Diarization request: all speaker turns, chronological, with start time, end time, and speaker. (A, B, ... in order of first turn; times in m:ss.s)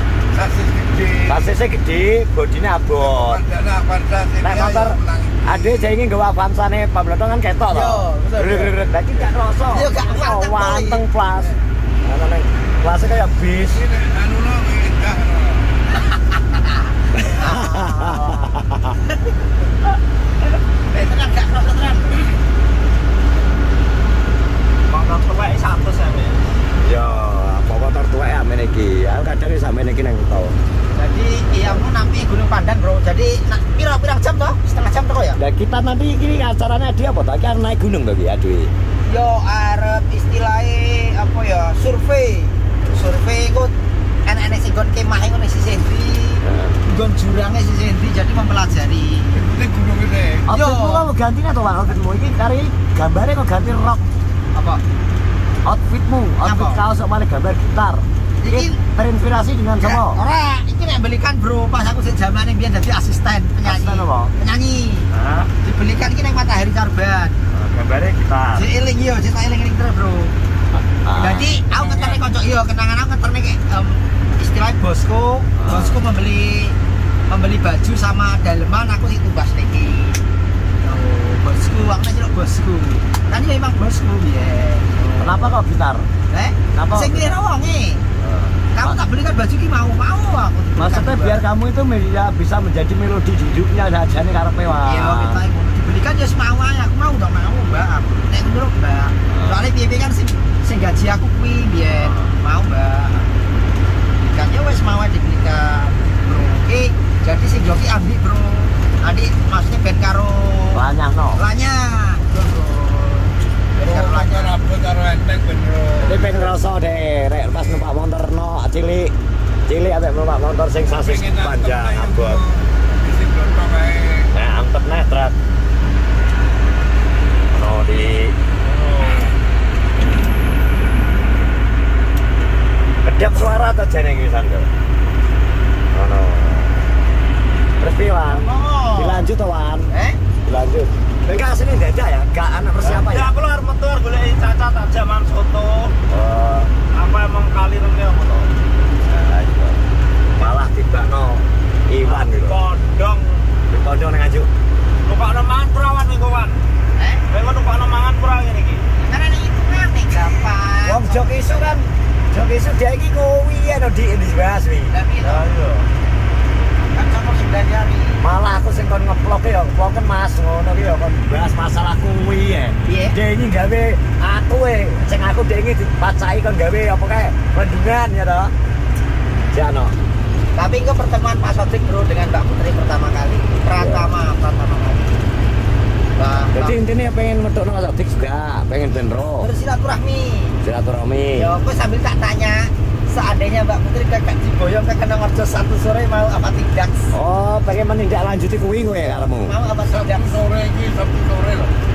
0:00.3-0:01.5 A
0:01.2-0:03.4 B
0:03.0-0:05.8 A
0:04.4-0:13.9 B
0:07.7-0:08.8 C
0:09.7-0:11.0 C
0:13.7-0:15.8 A
0:16.1-0:18.6 C
0:17.2-0:18.9 B
0:20.9-0:22.3 C
0:24.9-0:26.4 D
0:26.8-0:30.6 B
0:30.9-0:35.4 C
0:35.4-0:38.7 B
0:39.1-0:43.7 C
0:44.2-0:49.4 C
0:46.5-0:46.7 B
0:49.4-0:50.5 A
0:50.5-0:54.2 B
0:50.5-0:51.1 C
0:54.5-0:54.8 C
0:55.6-1:00.2 B
0:56.4-0:56.8 C
0:58.4-0:58.8 C
0:59.8-1:05.1 C
1:03.6-1:04.3 B
1:05.1-1:05.5 B
1:05.6-1:07.4 C
1:07.5-1:08.7 B
1:08.6-1:10.3 C
1:10.7-1:12.1 B
1:11.1-1:16.8 C
1:15.6-1:16.0 B
1:17.3-1:20.2 C
1:20.8-1:25.5 C
1:25.2-1:26.1 B
1:26.3-1:28.0 C
1:26.7-1:27.4 B
1:28.2-1:29.0 B
1:28.7-1:31.4 C
1:30.8-1:35.4 B
1:34.8-1:43.4 C
1:39.3-1:39.6 B
1:42.0-1:42.4 B
1:44.3-1:54.6 C
1:50.7-1:51.4 B
1:53.8-1:56.4 A
1:56.0-1:59.1 B
1:59.7-2:02.4 B
2:00.9-2:04.3 A
2:04.3-2:05.4 B
2:07.5-2:08.4 B
2:08.6-2:09.3 A
2:13.0-2:14.7 B
2:15.9-2:16.8 B
2:17.8-2:19.9 B
2:18.3-2:19.3 C
2:19.9-2:20.2 C
2:20.5-2:23.3 B
2:22.8-2:26.0 D
2:26.1-2:26.7 B
2:26.9-2:28.5 D
2:29.0-2:29.8 B
2:30.4-2:32.6 B
2:32.0-2:33.5 D
2:33.7-2:34.5 B
2:35.0-2:36.6 D
2:37.0-2:37.2 C
2:37.3-2:38.9 D
2:39.0-2:41.8 C
2:40.8-2:45.8 B
2:44.9-2:45.5 C
2:46.9-2:48.2 C
2:48.2-2:58.5 B
2:52.8-2:53.2 C
2:59.5-3:00.0 B
3:00.6-3:05.2 C
3:03.8-3:04.1 B
3:06.2-3:06.8 C
3:06.5-3:09.5 B
3:09.4-3:10.6 C
3:10.6-3:11.5 B
3:11.4-3:17.1 C
3:17.1-3:19.5 B
3:19.0-3:20.4 C
3:19.9-3:21.7 A